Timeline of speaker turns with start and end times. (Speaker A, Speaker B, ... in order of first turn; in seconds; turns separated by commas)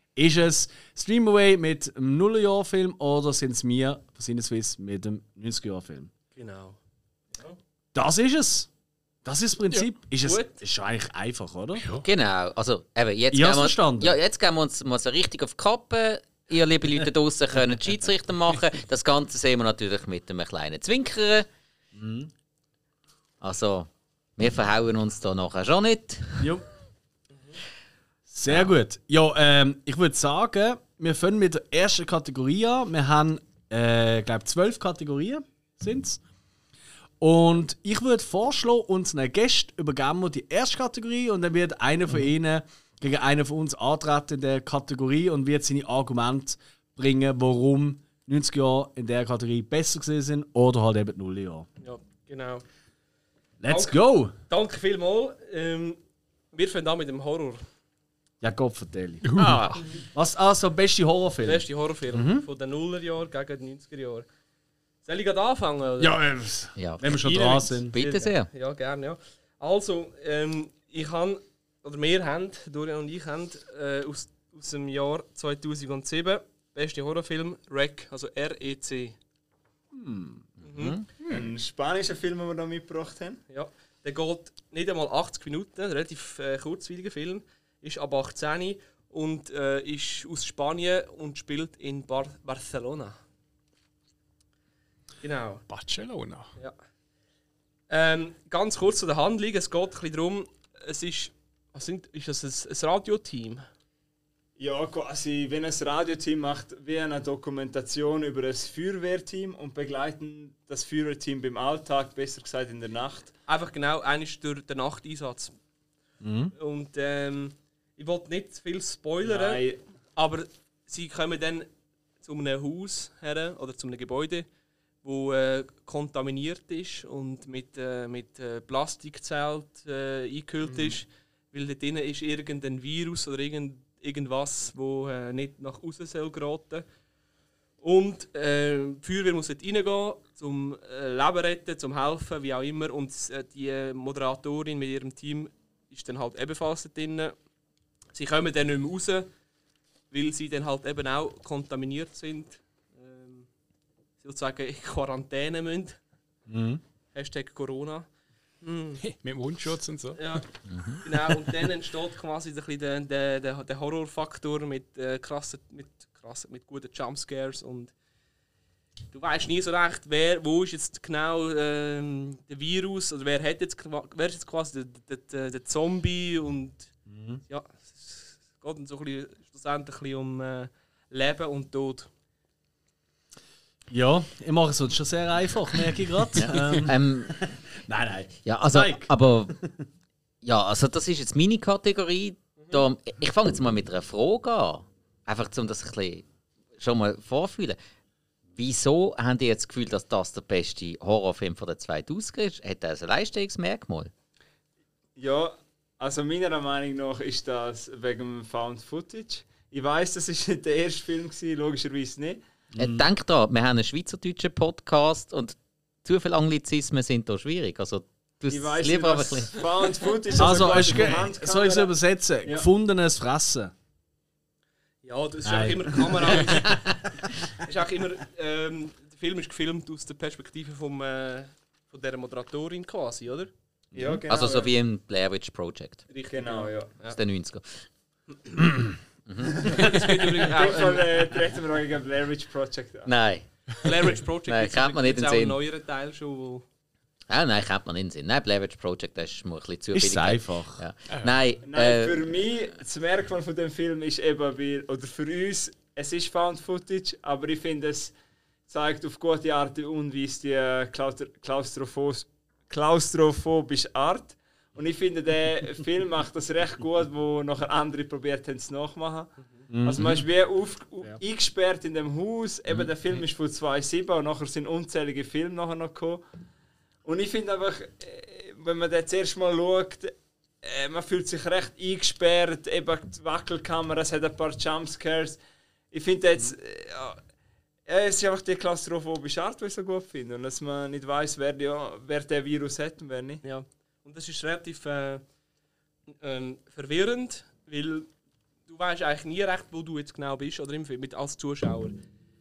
Speaker A: 0.1-6.1, Speaker B: 6.3-6.8, Speaker A: 7.9-8.7, Speaker A: 9.2-11.8, Speaker B: 10.2-10.6, Speaker C: 12.0-21.5, Speaker A: 13.3-14.2, Speaker A: 21.9-22.3, Speaker C: 23.4-26.4, Speaker A: 26.4-26.6, Speaker A: 28.3-36.2, Speaker A: 37.2-51.7, Speaker B: 51.8-52.6, Speaker A: 53.6-54.3, Speaker B: 53.7-56.0, Speaker B: 56.5-57.6, Speaker A: 58.4-59.6, Speaker D: 59.2-59.8, Speaker A: 60.1-62.5, Speaker B: 61.4-64.2, Speaker B: 65.0-66.2, Speaker A: 66.0-67.9, Speaker C: 66.8-68.5, Speaker B: 67.2-79.2, Speaker A: 79.9-80.4, Speaker C: 80.6-81.0, Speaker B: 80.6-81.0, Speaker D: 81.2-81.5, Speaker E: 81.3-83.4, Speaker B: 83.5-93.1, Speaker B: 95.2-95.6, Speaker D: 95.7-96.5, Speaker B: 97.9-103.6, Speaker E: 104.6-113.3, Speaker B: 113.5-115.5, Speaker A: 116.2-116.5, Speaker B: 116.5-119.6, Speaker E: 119.2-119.8, Speaker B: 120.2-121.7, Speaker B: 122.2-124.5, Speaker B: 125.0-136.8, Speaker B: 137.8-147.3, Speaker B: 148.1-149.3, Speaker B: 150.1-153.5, Speaker B: 154.2-156.0, Speaker A: 156.5-156.8, Speaker B: 157.1-158.1, Speaker B: 158.6-159.0, Speaker D: 159.0-160.4, Speaker B: 160.2-160.4, Speaker C: 160.7-161.0, Speaker B: 161.0-167.9, Speaker B: 169.1-176.9, Speaker A: 177.1-177.4, Speaker B: 177.5-182.1, Speaker A: 183.9-189.1, Speaker C: 186.3-187.5, Speaker C: 188.4-189.6, Speaker C: 190.4-196.2, Speaker C: 196.8-197.8, Speaker C: 198.6-204.1, Speaker E: 205.2-212.4, Speaker A: 212.7-213.0, Speaker C: 212.8-219.6, Speaker E: 218.5-221.9, Speaker A: 220.3-223.7, Speaker B: 225.0-226.8, Speaker A: 225.4-226.6, Speaker B: 227.6-233.5, Speaker E: 233.9-234.7, Speaker C: 234.2-236.0, Speaker B: 236.1-237.2, Speaker E: 236.3-236.9, Speaker C: 237.1-237.7, Speaker C: 239.3-239.8, Speaker B: 239.7-241.3, Speaker E: 239.7-243.1, Speaker C: 243.1-243.4, Speaker B: 243.8-246.6, Speaker C: 244.5-245.6, Speaker C: 247.3-252.2, Speaker A: 249.9-250.8, Speaker E: 251.6-258.1, Speaker E: 258.7-269.3, Speaker A: 269.7-270.2, Speaker E: 269.8-276.2, Speaker E: 277.0-285.4, Speaker E: 285.9-287.2, Speaker E: 287.9-293.4, Speaker B: 293.4-295.2, Speaker B: 296.1-298.1, Speaker B: 298.7-301.9